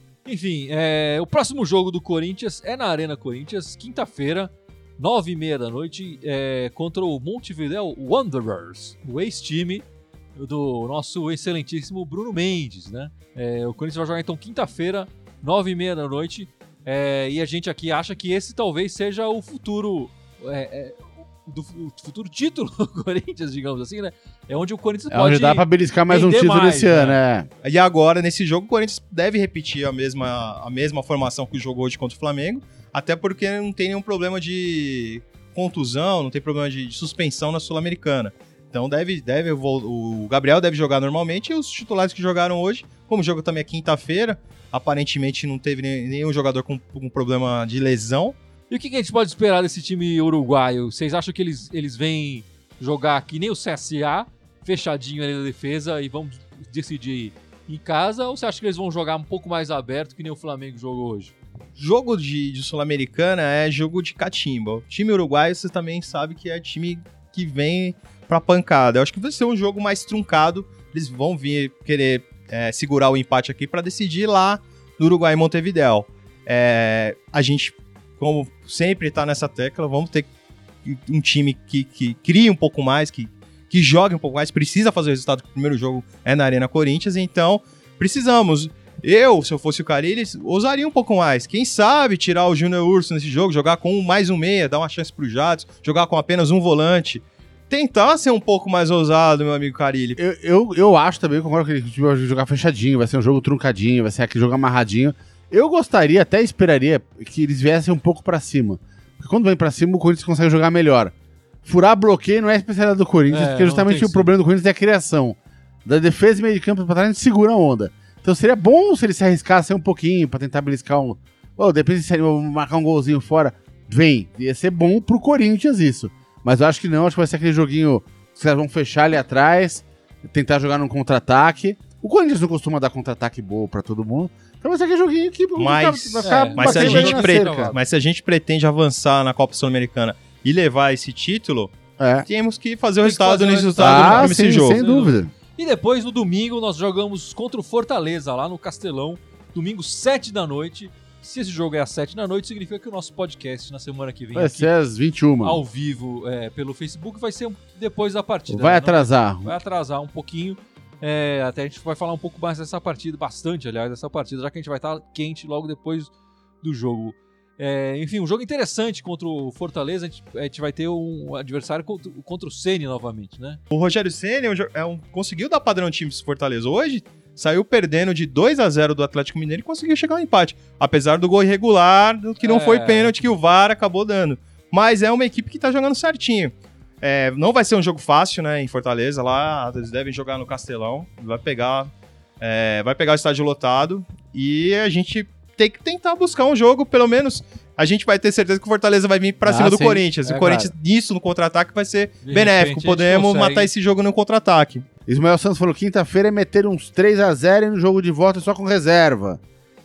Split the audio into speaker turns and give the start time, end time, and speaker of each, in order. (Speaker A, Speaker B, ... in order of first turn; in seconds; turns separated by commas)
Speaker A: 0.2-27.2, Speaker B: 25.1-27.5, Speaker C: 27.6-48.4, Speaker A: 48.7-61.4, Speaker C: 61.8-80.3, Speaker C: 80.8-100.2, Speaker B: 100.2-137.7, Speaker A: 113.3-114.3, Speaker C: 135.6-141.7, Speaker A: 136.2-137.8, Speaker B: 142.0-142.3, Speaker C: 142.3-144.8, Speaker A: 143.0-154.7, Speaker B: 143.8-145.3, Speaker B: 154.3-155.6, Speaker A: 155.4-173.6, Speaker B: 158.5-159.6, Speaker C: 173.7-191.9, Speaker A: 182.4-183.2, Speaker C: 192.4-204.9, Speaker B: 199.4-200.7, Speaker A: 200.3-200.6, Speaker A: 202.2-203.7, Speaker B: 205.1-209.4